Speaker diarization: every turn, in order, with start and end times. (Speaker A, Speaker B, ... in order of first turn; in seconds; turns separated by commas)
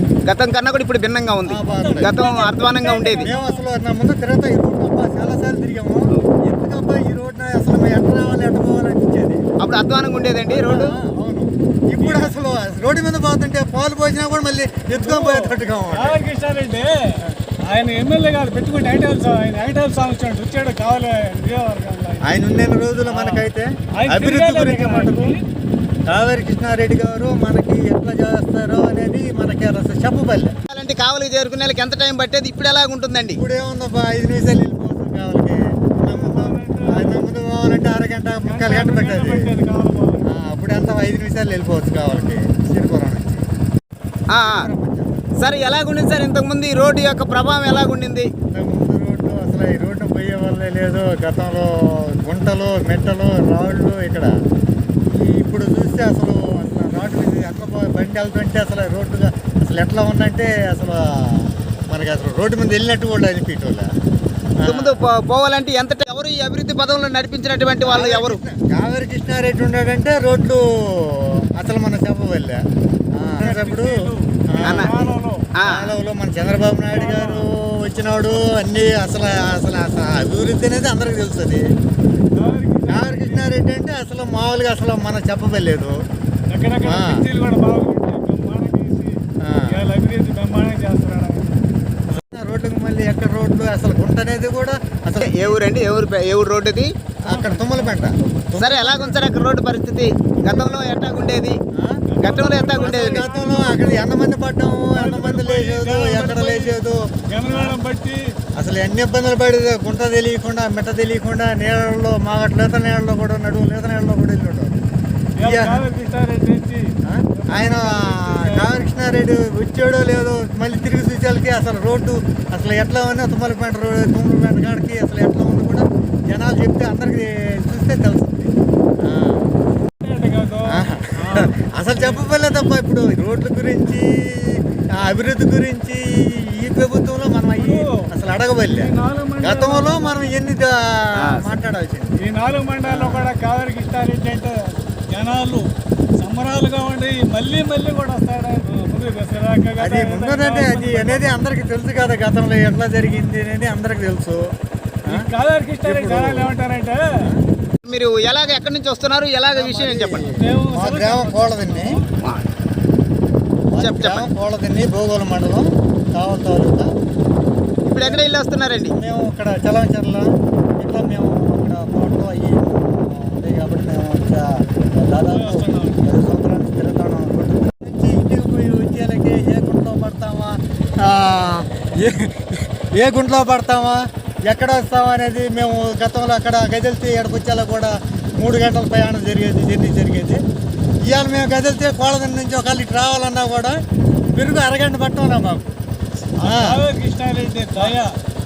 Speaker A: 0.2-3.3, Speaker B: 1.5-2.2, Speaker C: 1.6-3.6, Speaker B: 3.2-9.5, Speaker A: 9.6-10.9, Speaker B: 10.4-16.2, Speaker C: 12.0-12.3, Speaker C: 14.9-22.5, Speaker B: 22.2-25.4, Speaker C: 23.1-23.4, Speaker C: 24.0-25.4, Speaker B: 26.1-30.5, Speaker A: 30.7-33.4, Speaker B: 33.4-39.5, Speaker C: 36.1-37.2, Speaker C: 38.5-40.3, Speaker B: 40.2-43.4, Speaker C: 42.0-42.4, Speaker A: 44.3-44.7, Speaker B: 44.4-45.2, Speaker A: 45.4-48.3, Speaker B: 48.5-51.7, Speaker B: 52.2-54.3, Speaker B: 55.1-63.9, Speaker B: 64.6-65.0, Speaker A: 64.6-68.4, Speaker B: 67.8-70.6, Speaker B: 71.5-72.6, Speaker B: 73.1-73.9, Speaker C: 73.4-75.4, Speaker B: 74.5-75.1, Speaker A: 74.6-74.9, Speaker A: 75.6-75.9, Speaker B: 75.6-81.7, Speaker C: 76.9-77.4, Speaker C: 82.3-83.5, Speaker B: 82.9-86.0, Speaker C: 86.5-91.6, Speaker B: 86.8-87.2, Speaker B: 89.4-89.8, Speaker B: 92.1-95.6, Speaker A: 95.2-96.9, Speaker B: 97.2-99.2, Speaker C: 97.2-98.3, Speaker A: 98.6-101.6, Speaker B: 100.4-100.8, Speaker B: 101.7-107.8, Speaker C: 102.1-104.1, Speaker A: 102.2-103.2, Speaker C: 104.9-106.8, Speaker C: 107.3-108.2, Speaker B: 108.5-114.8, Speaker C: 115.4-118.9, Speaker B: 115.4-115.8, Speaker B: 117.0-129.4, Speaker C: 130.0-132.3, Speaker B: 130.7-134.1, Speaker B: 135.0-142.2, Speaker C: 137.6-138.0, Speaker C: 138.7-140.4, Speaker A: 141.2-141.6, Speaker C: 142.2-151.5, Speaker B: 142.9-143.3, Speaker B: 149.8-154.4, Speaker C: 155.1-157.0, Speaker B: 155.8-156.5, Speaker A: 157.8-160.3, Speaker B: 159.5-162.0, Speaker C: 160.3-162.1, Speaker A: 162.2-162.4, Speaker B: 163.7-166.9, Speaker A: 163.8-164.3, Speaker A: 167.8-168.9, Speaker B: 167.9-168.3, Speaker B: 168.9-190.4, Speaker C: 175.3-176.0, Speaker B: 191.0-193.8, Speaker B: 194.3-195.7, Speaker C: 196.4-198.2, Speaker B: 196.4-196.7